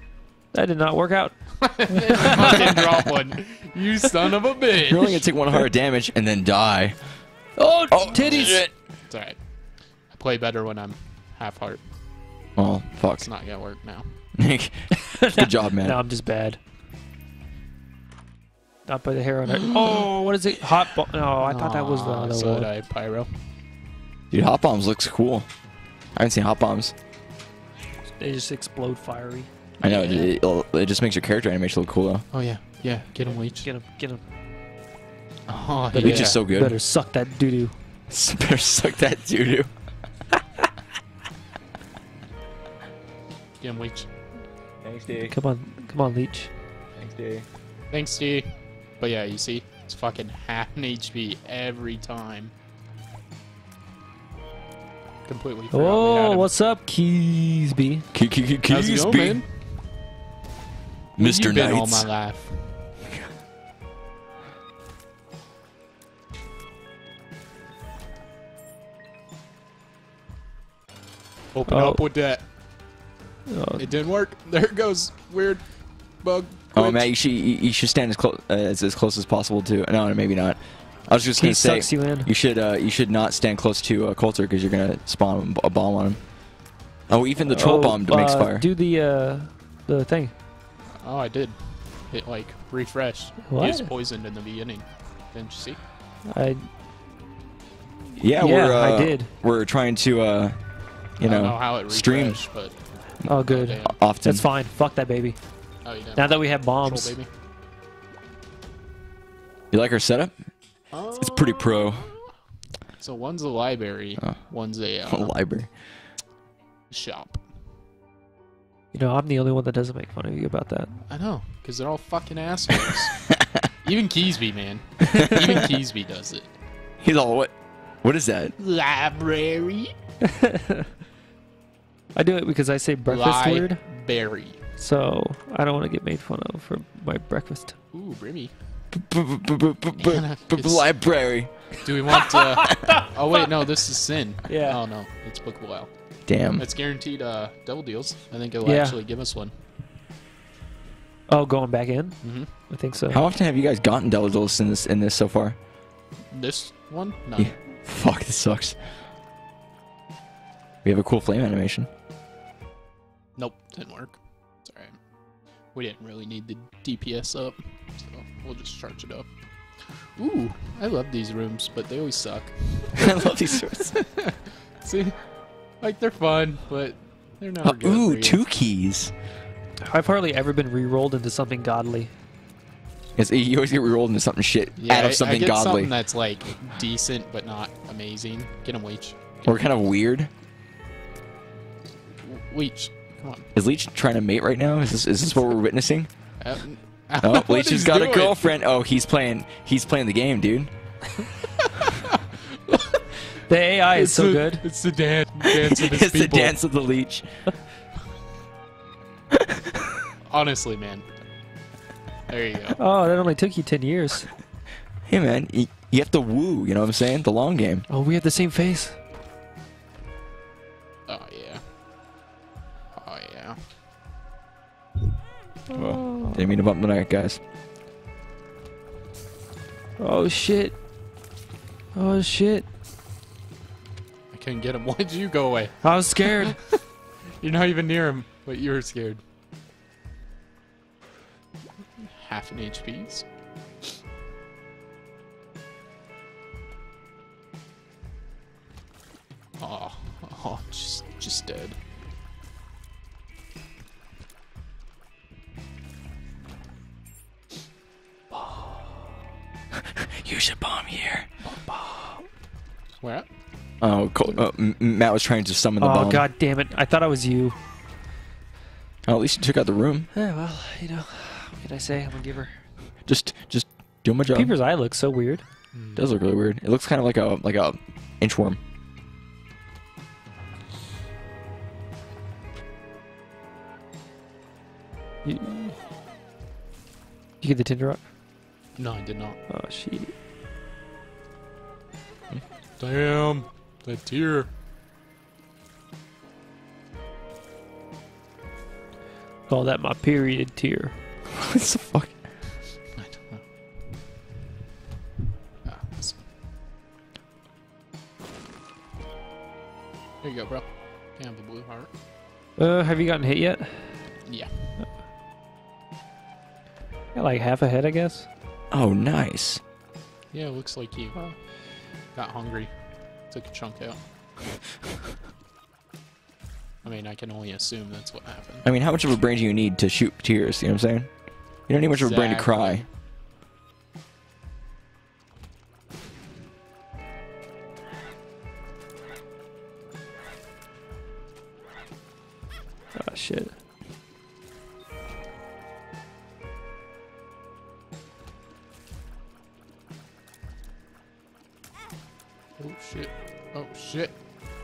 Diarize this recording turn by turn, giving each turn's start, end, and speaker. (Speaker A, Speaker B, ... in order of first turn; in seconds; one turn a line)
Speaker A: 0.5-2.7
Speaker B: 1.6-5.3
Speaker C: 2.5-2.9
Speaker C: 4.9-7.0
Speaker A: 7.6-8.6
Speaker C: 7.9-8.7
Speaker B: 8.3-9.4
Speaker B: 10.1-11.8
Speaker C: 12.6-13.3
Speaker B: 13.2-14.2
Speaker C: 14.3-16.0
Speaker A: 14.9-16.6
Speaker A: 18.9-22.7
Speaker B: 21.4-23.5
Speaker C: 24.3-25.5
Speaker C: 26.1-26.9
Speaker A: 28.2-30.3
Speaker C: 29.8-32.2
Speaker B: 32.3-33.7
Speaker A: 33.2-34.2
Speaker B: 35.5-36.4
Speaker A: 35.9-37.7
Speaker C: 36.0-36.8
Speaker C: 38.1-39.7
Speaker B: 43.6-44.1
Speaker C: 44.8-45.3
Speaker A: 45.2-46.5
Speaker C: 47.0-47.5
Speaker B: 47.9-52.5
Speaker B: 55.2-56.5
Speaker A: 55.7-58.1
Speaker C: 58.1-59.4
Speaker B: 58.7-60.1
Speaker C: 61.2-62.1
Speaker B: 61.2-63.0
Speaker B: 71.5-72.5
Speaker A: 71.7-72.0
Speaker A: 73.5-74.0
Speaker B: 73.8-77.1
Speaker C: 76.7-86.4
Speaker A: 81.4-82.3
Speaker C: 87.1-88.7
Speaker A: 87.4-90.3
Speaker B: 91.0-95.8
Speaker A: 93.5-93.9
Speaker A: 96.3-96.6
Speaker C: 98.2-102.4
Speaker A: 98.4-99.3
Speaker B: 101.2-103.9
Speaker A: 103.2-105.4
Speaker C: 103.8-104.5
Speaker B: 105.8-107.3
Speaker A: 106.2-107.1
Speaker C: 109.7-110.4
Speaker B: 110.9-112.3
Speaker C: 111.2-112.1
Speaker B: 113.0-115.4
Speaker C: 115.1-115.7
Speaker B: 116.9-117.4
Speaker A: 118.9-120.9
Speaker B: 121.1-126.5
Speaker C: 123.3-123.7
Speaker C: 127.0-128.6
Speaker B: 128.6-129.9
Speaker A: 130.2-130.9
Speaker A: 132.2-133.8
Speaker B: 133.1-134.6
Speaker A: 134.8-137.8
Speaker B: 137.9-138.5
Speaker C: 138.9-141.7
Speaker B: 140.0-140.9
Speaker B: 141.8-145.9
Speaker A: 142.3-143.1
Speaker A: 144.5-144.8
Speaker C: 146.2-146.6
Speaker B: 146.5-149.5
Speaker A: 148.6-149.0
Speaker A: 151.3-153.2
Speaker B: 152.2-152.5
Speaker C: 153.1-155.6
Speaker B: 156.3-157.6
Speaker C: 157.4-158.8
Speaker C: 160.8-161.9
Speaker B: 163.4-165.0
Speaker B: 165.7-169.3
Speaker B: 170.0-175.3
Speaker C: 173.0-174.1
Speaker B: 175.8-178.4
Speaker C: 177.6-179.1
Speaker A: 179.8-182.1
Speaker C: 183.2-185.9
Speaker B: 184.8-189.6
Speaker C: 189.4-190.3
Speaker B: 192.2-193.5
Speaker C: 193.5-196.1
Speaker B: 196.4-198.5
Speaker C: 197.2-201.0
Speaker B: 202.7-203.0
Speaker A: 203.5-204.6
Speaker B: 203.9-206.6
Speaker C: 205.4-207.5
Speaker B: 210.3-211.1
Speaker B: 212.3-212.8
Speaker A: 212.8-214.3
Speaker C: 215.1-217.8
Speaker A: 217.9-219.0
Speaker B: 221.1-221.6
Speaker B: 222.9-223.7
Speaker A: 225.7-226.5
Speaker C: 225.7-227.4
Speaker A: 230.0-230.8
Speaker A: 231.9-232.7
Speaker B: 234.3-236.8
Speaker A: 235.8-236.6
Speaker B: 237.4-239.2
Speaker B: 242.0-243.2
Speaker B: 249.6-251.8
Speaker A: 258.3-258.9
Speaker C: 259.8-261.3
Speaker A: 261.5-262.3
Speaker B: 263.0-263.3
Speaker C: 263.8-266.3
Speaker A: 265.8-267.6
Speaker C: 269.1-270.1
Speaker A: 270.1-272.6
Speaker C: 273.1-274.5
Speaker A: 274.3-275.4
Speaker B: 275.7-276.1
Speaker C: 276.0-278.6
Speaker A: 285.2-285.8
Speaker A: 287.4-288.1
Speaker B: 288.8-289.4
Speaker A: 289.5-290.1
Speaker B: 292.8-294.5
Speaker A: 299.5-301.0
Speaker C: 301.3-302.2
Speaker B: 302.9-303.4
Speaker B: 305.6-306.3
Speaker B: 310.2-311.9
Speaker A: 312.6-314.1
Speaker B: 314.2-314.8
Speaker A: 317.1-318.3
Speaker C: 318.7-319.6
Speaker B: 320.3-321.4
Speaker B: 322.1-322.7
Speaker B: 323.2-324.0
Speaker B: 326.8-328.6
Speaker C: 328.6-331.1
Speaker C: 331.7-332.9
Speaker B: 331.9-332.9
Speaker A: 343.0-343.6
Speaker B: 352.6-354.1